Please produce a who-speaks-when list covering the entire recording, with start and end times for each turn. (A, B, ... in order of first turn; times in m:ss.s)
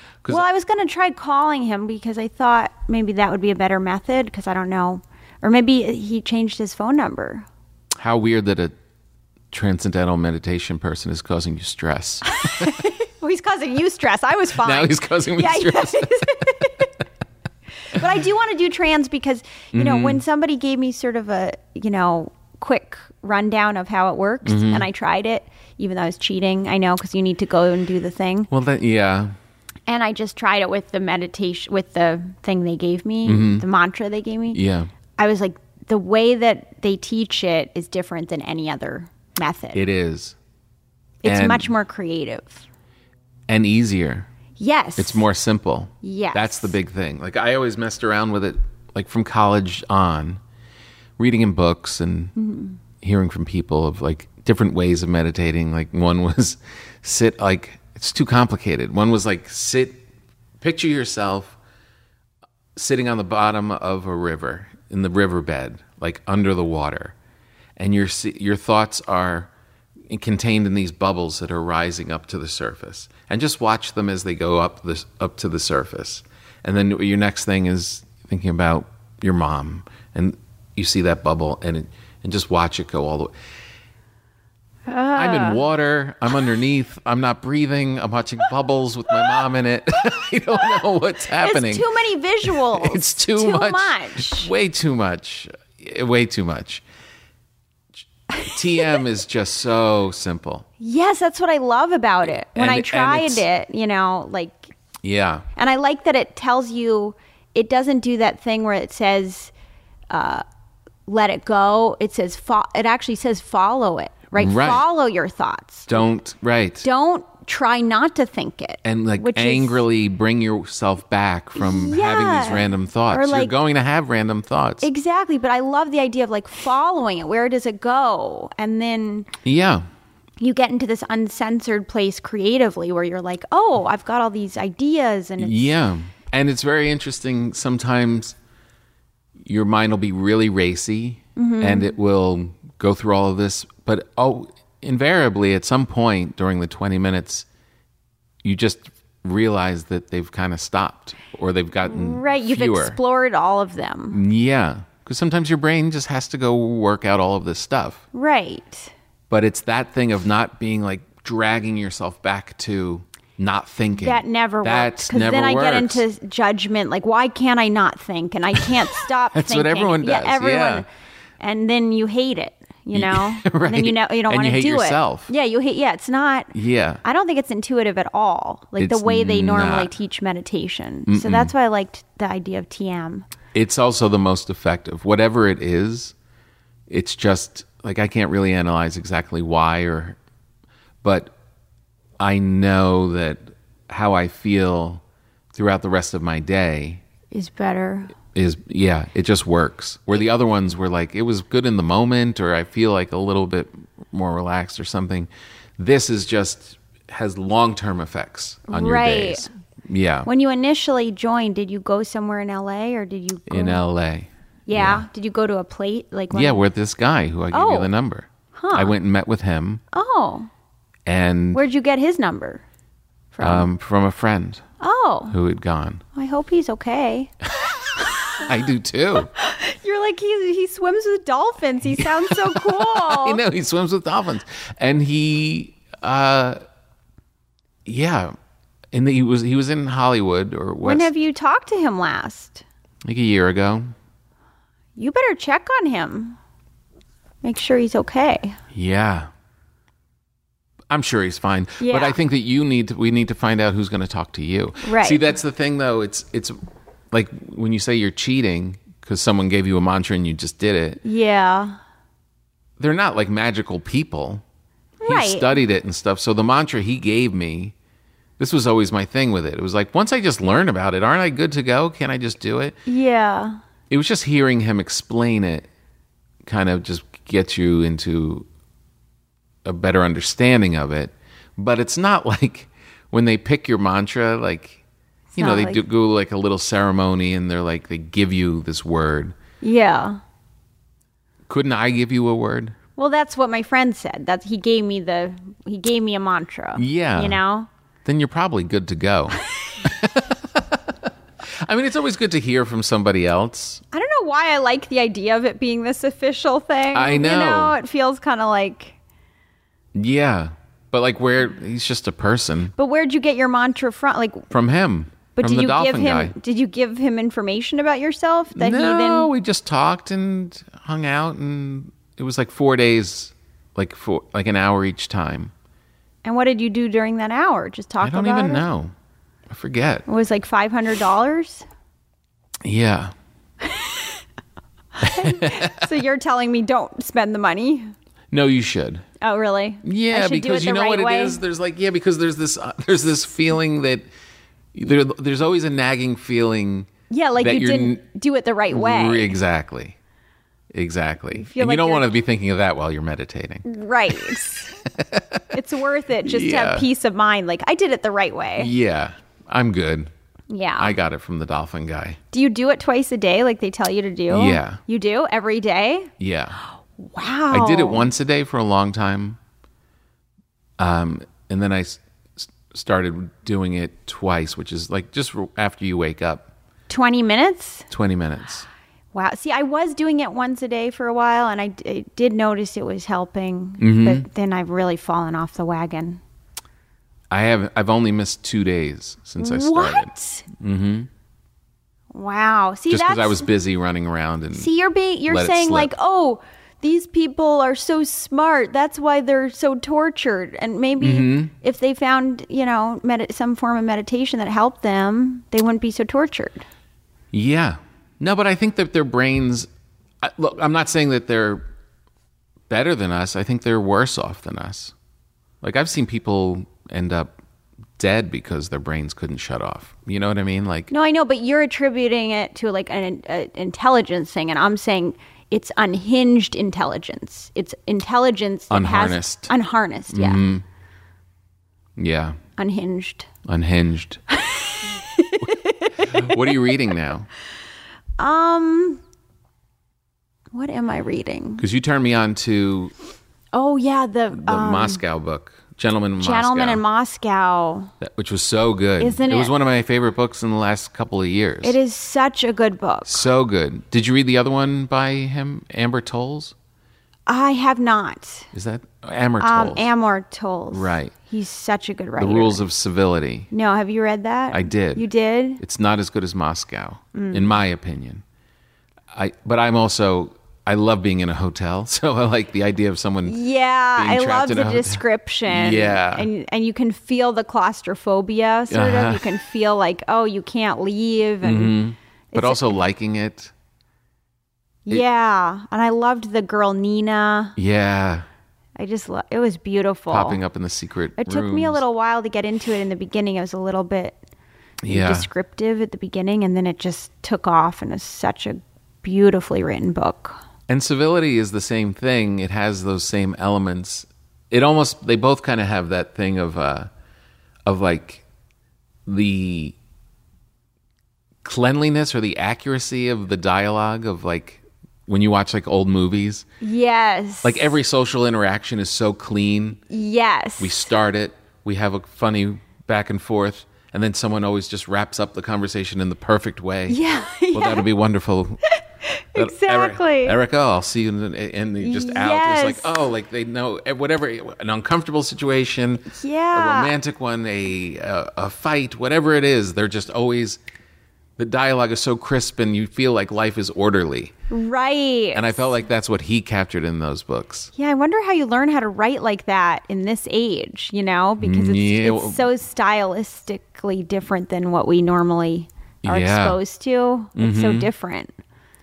0:00.3-0:07.4 A
0:08.0-0:08.7 B
0:09.5-0:12.3 B
0:12.4-0:16.9 A
0:14.6-0:16.3 B
0:17.9-0:28.5 A
0:19.7-0:20.2 B
0:24.4-0:24.9 B
0:28.5-0:29.3 B
0:29.9-0:34.6 A
0:33.2-0:33.6 B
0:34.5-0:34.9 B
0:35.2-0:39.8 A
0:39.7-0:40.4 B
0:41.2-0:42.6 A
0:41.2-0:41.7 B
0:43.5-0:44.3 B
0:44.6-0:45.2 A
0:45.0-0:50.4 B
0:46.0-0:46.7 A
0:51.2-0:52.3 B
0:52.4-0:52.8 A
0:53.0-1:00.0 B
1:00.6-1:01.6 B
1:02.8-1:07.1 B
1:07.8-1:09.5 B
1:10.1-1:23.3 B
1:24.9-1:25.6 A
1:25.1-1:31.9 B
1:31.4-1:34.5 A
1:32.4-1:36.8 B
1:38.3-1:39.0 A
1:38.4-1:40.6 B
1:40.8-1:44.7 A
1:42.5-1:43.4 B
1:45.0-1:45.5 B
1:45.6-1:49.5 A
1:50.1-1:50.4 A
1:51.1-1:56.0 A
1:54.4-1:54.8 B
1:55.9-1:56.9 B
1:56.8-1:59.8 A
1:58.8-2:04.8 B
2:01.5-2:03.5 A
2:04.8-2:09.3 A
2:09.4-2:09.8 B
2:10.4-2:15.8 A
2:15.4-2:18.4 B
2:19.4-2:27.4 B
2:21.4-2:21.9 A
2:28.4-2:33.0 B
2:31.9-2:34.2 A
2:34.1-2:38.0 B
2:38.1-2:38.9 A
2:39.3-2:46.0 B
2:44.0-2:50.9 A
2:49.3-2:50.8 B
2:51.4-3:03.3 A
2:52.9-2:55.3 B
2:56.5-2:57.0 B
2:58.8-2:59.9 B
3:01.1-3:01.5 B
3:03.5-3:06.1 B
3:06.9-3:10.2 B
3:11.0-3:11.3 B
3:12.2-3:15.0 B
3:15.5-3:17.0 B
3:17.3-3:18.1 A
3:18.3-3:30.3 B
3:28.7-3:29.5 A
3:30.2-3:33.8 A
3:33.5-3:35.0 B
3:34.7-3:36.6 A
3:36.3-3:39.8 B
3:37.5-3:37.9 A
3:38.5-3:38.9 A
3:39.9-3:40.5 A
3:41.0-3:41.6 B
3:41.5-3:42.6 A
3:43.3-3:43.7 A
3:43.4-3:44.6 B
3:44.8-3:45.4 A
3:45.3-3:46.0 B
3:46.1-3:47.3 A
3:48.4-3:49.3 B
3:49.4-3:53.4 A
3:51.9-3:56.6 B
3:57.8-3:58.3 B
3:58.9-4:01.1 B
4:00.8-4:02.6 A
4:03.0-4:03.9 B
4:05.0-4:06.4 A
4:07.4-4:08.6 A
4:08.7-4:09.3 B
4:10.9-4:16.5 B
4:11.8-4:12.2 A
4:14.8-4:15.2 A
4:17.1-4:21.0 B
4:21.0-4:21.8 A
4:22.8-4:24.4 B
4:25.0-4:25.6 A
4:25.0-4:27.7 B
4:28.4-4:32.8 B
4:32.9-4:33.6 A
4:33.9-4:35.7 B
4:36.4-4:38.5 B
4:39.6-4:44.8 B
4:45.3-4:45.8 A
4:45.4-4:49.4 B
4:49.6-4:50.2 A
4:51.5-4:52.8 B
4:53.0-4:57.7 A
4:56.8-4:57.4 B
4:58.0-5:03.8 B
5:03.9-5:09.0 A
5:06.9-5:07.8 B
5:09.9-5:12.7 B
5:12.8-5:14.4 A
5:14.5-5:16.3 B
5:15.4-5:19.3 A
5:18.5-5:25.5 B
5:26.2-5:28.7 A
5:28.0-5:28.9 B
5:29.5-5:30.0 B
5:30.1-5:31.6 A
5:32.6-5:33.1 B
5:33.6-5:34.1 A
5:35.0-5:37.9 A
5:35.0-5:35.9 B
5:38.3-5:39.0 B
5:39.2-5:41.4 A
5:39.8-5:44.0 B
5:44.7-5:48.0 B
5:47.1-5:49.4 A
5:48.7-5:50.0 B
5:50.7-5:53.6 B
5:51.3-5:52.1 A
5:53.6-5:54.8 A
5:55.0-5:55.4 B
5:55.5-5:58.7 A
5:56.2-5:56.9 B
5:58.6-6:00.1 B
6:00.5-6:00.9 A
6:00.8-6:02.2 B
6:02.3-6:06.1 A
6:04.3-6:04.8 B
6:06.2-6:06.6 B
6:07.0-6:08.1 A
6:07.5-6:09.4 B
6:10.8-6:16.5 B
6:16.9-6:17.9 A
6:17.9-6:18.7 B
6:19.1-6:26.2 A
6:23.8-6:24.3 B
6:27.3-6:31.1 B
6:29.4-6:30.5 A
6:32.1-6:33.5 A
6:32.9-6:34.7 B
6:34.5-6:46.6 A
6:35.3-6:35.9 B
6:41.0-6:41.5 B
6:47.3-6:49.7 B
6:50.2-6:51.7 B
6:52.7-6:54.9 B
6:55.6-6:57.3 B
6:58.0-7:00.9 B
7:00.9-7:10.4 A
7:08.7-7:09.5 B
7:10.1-7:10.6 B
7:12.0-7:12.4 B
7:12.6-7:13.3 A
7:13.4-7:14.2 B
7:14.3-7:16.7 A
7:15.4-7:17.3 B
7:18.2-7:19.0 A
7:20.5-7:21.6 A
7:21.6-7:22.9 B
7:23.5-7:25.0 A
7:24.3-7:26.8 B
7:26.2-7:27.9 A
7:28.0-7:31.8 B
7:29.0-7:29.5 A
7:31.6-7:33.2 A
7:33.1-7:36.5 B
7:37.3-7:38.5 A
7:38.5-7:39.8 B
7:39.4-7:42.6 A
7:40.7-7:41.1 B
7:42.2-7:43.5 B
7:43.5-7:45.6 A
7:44.5-7:45.0 B
7:45.6-7:48.2 B
7:47.1-7:47.6 A
7:49.1-7:53.4 B
7:53.2-8:01.8 A
7:54.0-7:56.3 B
7:58.7-7:59.3 B
8:01.4-8:03.5 B
8:02.3-8:02.7 A
8:04.8-8:07.6 A
8:07.6-8:08.2 B
8:08.8-8:10.4 A
8:10.1-8:11.8 B
8:11.2-8:14.2 A
8:14.8-8:15.3 B
8:14.8-8:20.4 A
8:20.7-8:26.9 B
8:27.6-8:28.2 B
8:29.0-8:29.8 B
8:31.4-8:36.4 B
8:36.6-8:37.7 A
8:37.4-8:39.8 B
8:39.9-8:40.9 A
8:40.6-8:47.0 B
8:46.9-8:47.8 A
8:47.5-8:48.6 B
8:49.0-8:50.4 A
8:49.4-9:00.6 B
8:51.8-8:52.9 A
8:56.1-8:56.9 A
9:01.4-9:04.3 B
9:04.5-9:05.6 A
9:05.3-9:07.7 B
9:07.8-9:18.3 A
9:11.4-9:12.4 B
9:16.0-9:16.6 B
9:17.4-9:17.9 B